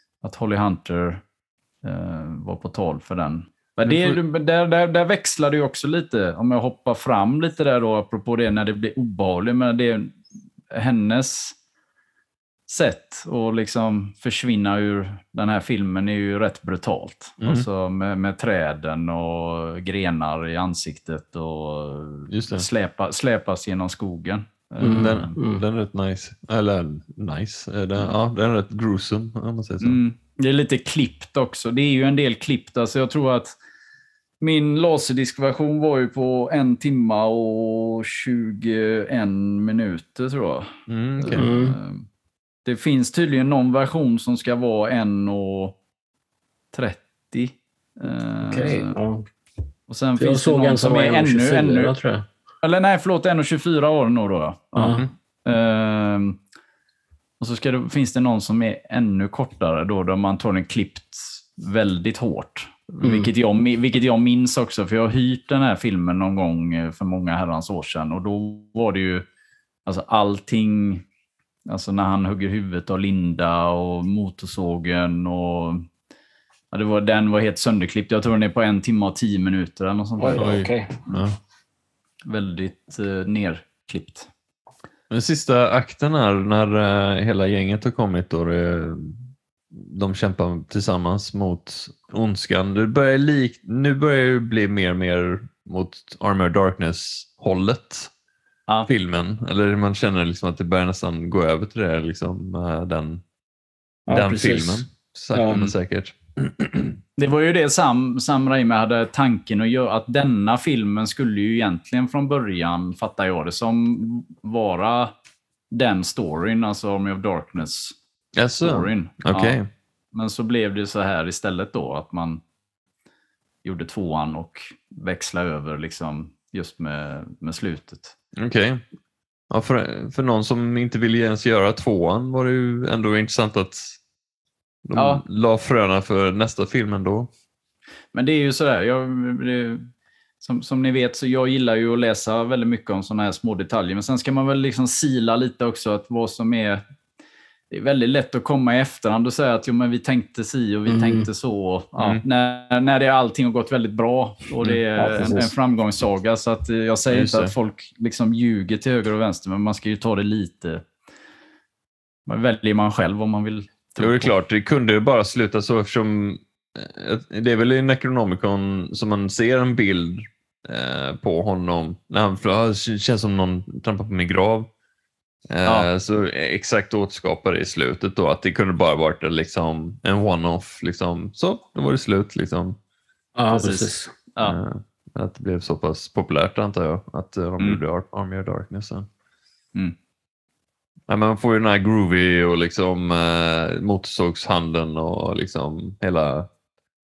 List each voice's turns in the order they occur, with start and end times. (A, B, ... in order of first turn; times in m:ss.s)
0:00.2-0:01.2 A
0:01.8-0:10.1 A
0:03.8-0:04.2 B
0:10.7-0:11.6 A
0:12.7-0:25.3 A
0:22.3-0:22.6 B
0:24.8-0:25.6 C
0:24.8-0:30.0 B
0:29.8-0:33.5 A
0:34.4-0:42.0 A
0:40.9-0:41.5 B
0:41.3-0:41.8 C
0:42.6-0:45.7 A
0:46.7-0:48.9 A
0:48.4-0:49.2 C
0:49.9-0:51.9 A
0:50.2-0:52.2 C
0:52.6-0:56.4 A
0:54.8-0:55.0 C
0:57.4-1:09.2 A
1:03.0-1:03.3 C
1:09.8-1:11.0 A
1:11.7-1:15.8 A
1:16.7-1:20.7 A
1:20.2-1:21.0 C
1:21.1-1:21.4 B
1:22.3-1:24.3 A
1:25.1-1:38.1 B
1:38.9-1:43.2 B
1:44.1-1:45.7 C
1:44.1-1:47.0 B
1:47.2-1:55.1 A
1:55.7-1:58.0 A
1:58.4-1:59.7 B
1:58.6-1:59.6 A
2:00.1-2:02.4 A
2:03.6-2:08.1 A
2:08.4-2:08.8 B
2:09.5-2:14.0 B
2:14.8-2:17.3 B
2:15.0-2:15.2 A
2:18.1-2:19.8 A
2:20.4-2:26.8 A
2:27.7-2:40.8 A
2:30.9-2:31.3 C
2:32.0-2:32.2 B
2:35.0-2:35.5 C
2:37.1-2:37.5 B
2:42.2-2:44.3 A
2:44.0-2:54.7 B
2:55.5-3:02.8 B
3:03.4-3:04.1 C
3:03.5-3:04.6 A
3:04.4-3:09.1 B
3:11.1-3:16.4 B